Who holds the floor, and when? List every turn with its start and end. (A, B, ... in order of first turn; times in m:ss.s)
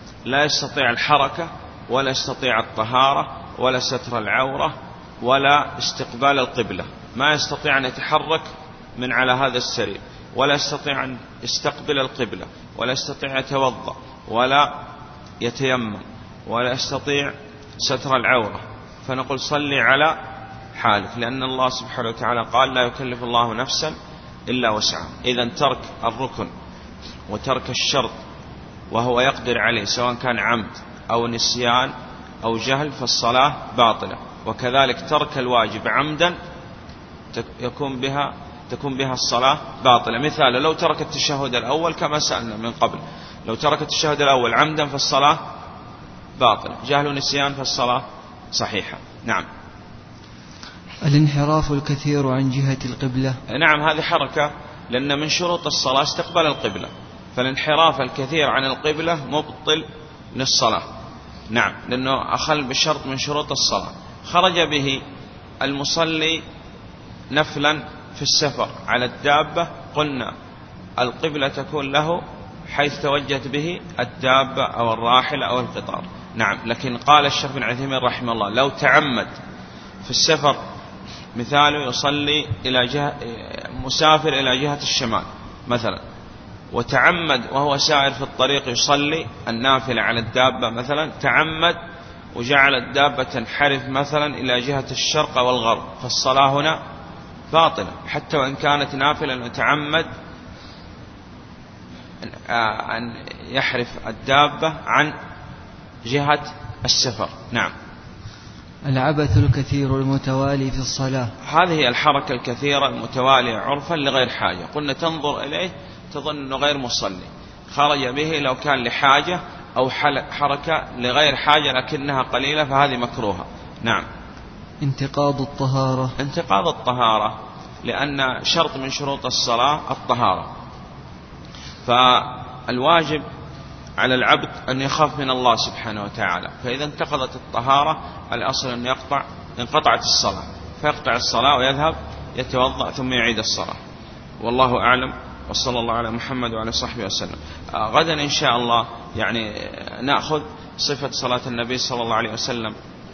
0:00.2-0:14.7 A
0:15.4-0:20.2 A
0:20.7-0:23.9 A
0:24.5-0:26.5 A
0:27.3-0:28.1 A
0:28.9-0:36.4 A
0:37.3-0:45.4 A
0:46.4-0:49.5 A
0:51.0-0:53.4 B
0:53.5-1:00.8 A
1:01.5-1:05.0 A
1:05.6-1:06.4 A
1:07.3-1:10.3 A
1:11.0-1:19.3 A
1:20.0-1:20.6 A
1:21.3-1:26.0 A
1:26.7-1:31.8 A
1:32.3-1:36.8 A
1:37.5-1:40.1 A
1:42.2-1:45.1 A
1:46.0-1:47.7 A
1:48.8-1:51.3 B
1:51.4-2:04.0 A
2:04.8-2:06.2 B
2:06.2-2:10.5 A
2:11.8-2:13.2 A
2:14.0-2:23.8 A
2:24.4-2:32.7 A